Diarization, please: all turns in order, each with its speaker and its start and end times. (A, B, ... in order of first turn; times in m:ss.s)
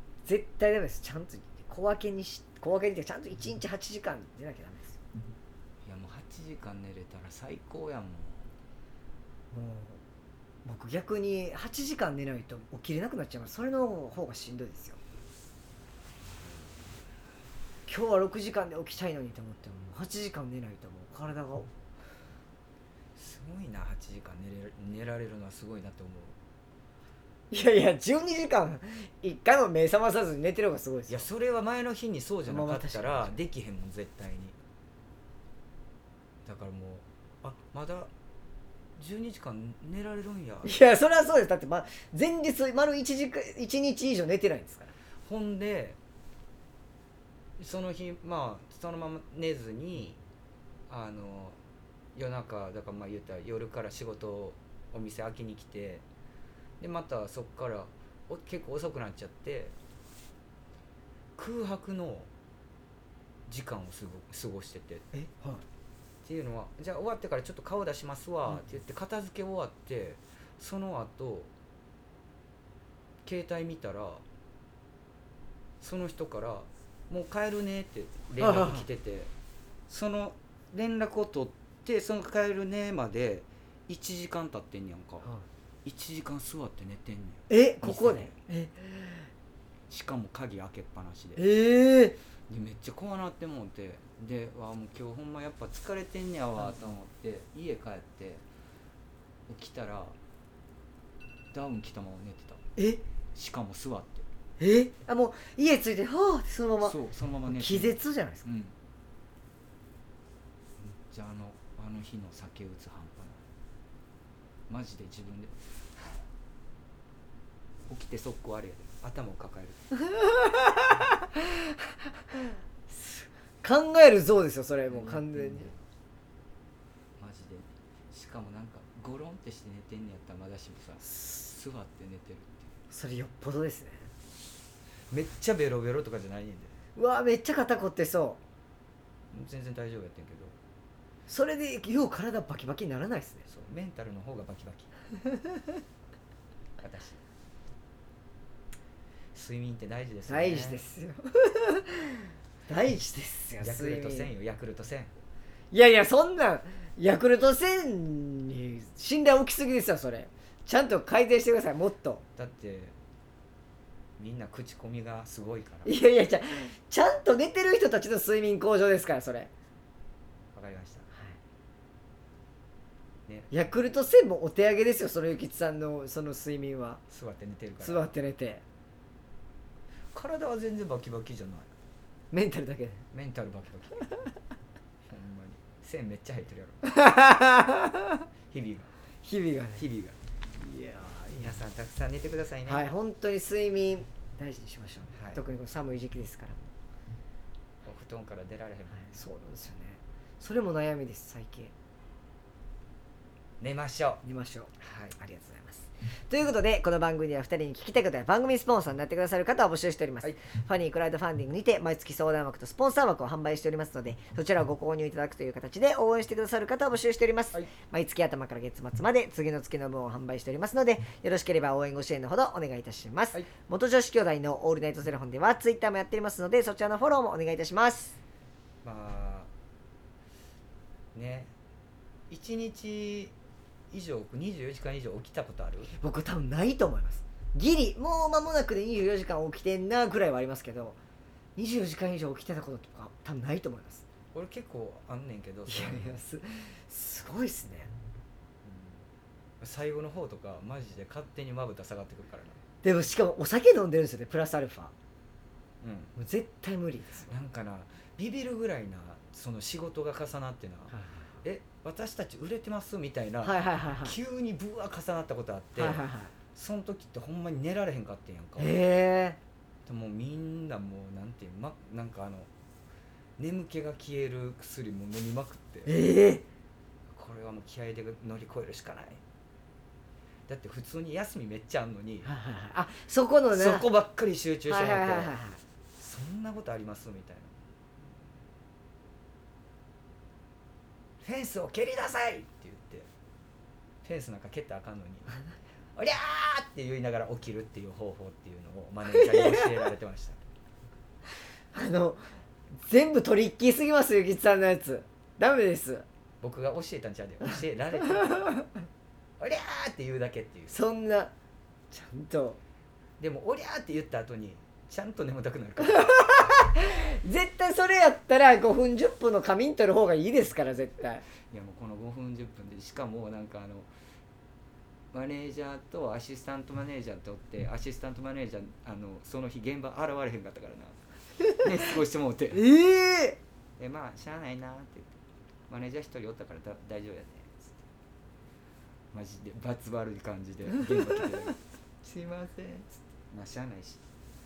0:00.2-0:05.0 A
0:05.8-0:08.5 B
0:09.5-0:10.0 A
0:10.6-0:15.0 A
0:17.9-0:21.7 A
0:23.2-0:26.3 B
0:27.5-0:31.2 A
0:31.1-0:34.6 B
0:32.4-0:33.3 A
0:36.4-0:38.1 B
0:39.0-0:40.8 B
0:40.6-0:44.9 A
0:45.2-0:46.0 B
0:47.6-0:50.2 B
0:50.9-0:51.6 B
0:52.1-0:56.0 B
0:56.8-0:59.7 B
1:01.4-1:02.3 B
1:03.5-1:05.0 B
1:05.1-1:05.6 A
1:06.2-1:11.5 B
1:13.2-1:14.2 B
1:15.8-1:19.3 B
1:18.4-1:18.8 A
1:19.9-1:25.3 B
1:25.8-1:28.3 B
1:27.5-1:29.3 A
1:29.9-1:31.4 B
1:31.4-1:32.2 A
1:32.5-1:38.4 B
1:39.5-1:40.2 B
1:41.5-1:42.6 B
1:42.8-1:43.0 A
1:43.3-1:44.2 B
1:44.6-1:48.5 A
1:46.8-1:48.7 B
1:50.8-1:53.4 B
1:54.7-1:56.2 B
1:57.9-1:59.9 B
2:00.1-2:01.0 A
2:02.9-2:05.7 A
2:04.9-2:05.8 B
2:07.2-2:12.6 B
2:12.9-2:14.1 A
2:15.1-2:16.8 B
2:17.0-2:18.4 A
2:19.3-2:20.6 B
2:21.3-2:23.4 A
2:23.5-2:24.9 B
2:26.8-2:27.2 B
2:29.3-2:30.8 B
2:30.3-2:32.2 A
2:32.7-2:34.3 A
2:33.6-2:35.1 B
2:35.7-2:42.2 A
2:42.4-2:42.9 B
2:44.2-2:45.9 B
2:45.8-2:49.5 A
2:50.5-2:51.1 B
2:53.3-2:53.6 B
2:53.5-2:57.0 A
2:57.1-2:58.1 B
2:57.8-2:58.6 A
3:00.1-3:01.7 B
3:02.3-3:03.0 A
3:03.1-3:04.3 B
3:05.1-3:06.8 B
3:06.8-3:08.2 A
3:08.5-3:08.9 B
3:09.2-3:09.8 A
3:09.8-3:10.2 B
3:10.6-3:11.4 A
3:11.3-3:12.8 B
3:12.6-3:16.7 A
3:15.1-3:15.4 B
3:17.8-3:19.2 B
3:19.1-3:21.7 A
3:23.6-3:24.2 B
3:24.2-3:48.2 A
3:24.8-3:25.2 B
3:48.8-3:49.5 B
3:51.1-3:51.5 B
3:52.3-3:53.3 B
3:53.9-3:55.9 B
3:55.9-4:01.0 A
4:01.6-4:04.0 A
4:04.3-4:06.2 B
4:05.7-4:07.9 A
4:08.6-4:09.0 B
4:09.6-4:12.6 B
4:12.8-4:14.9 A
4:15.8-4:16.1 B
4:16.2-4:17.3 A
4:17.3-4:28.8 B
4:20.9-4:21.3 A
4:23.4-4:24.1 A
4:25.8-4:26.3 A
4:28.6-4:29.4 A
4:29.8-4:32.5 B
4:33.4-4:36.0 B
4:35.8-4:36.4 A
4:37.1-4:39.2 B
4:40.5-4:42.3 B
4:42.2-4:43.9 A
4:43.5-4:45.4 B
4:44.7-4:45.6 A
4:46.0-4:47.5 B
4:51.2-4:53.1 B
4:54.0-4:55.4 B
4:56.0-5:00.4 B
5:01.7-5:06.0 A
5:06.4-5:08.7 B
5:09.4-5:10.8 B
5:10.7-5:11.3 A
5:11.9-5:12.6 A
5:13.2-5:16.3 B
5:15.8-5:21.2 A
5:21.5-5:23.9 B
5:25.1-5:31.0 B
5:31.6-5:32.7 B
5:32.5-5:33.4 A
5:33.8-5:35.2 B
5:35.7-5:37.8 B
5:39.1-5:44.0 B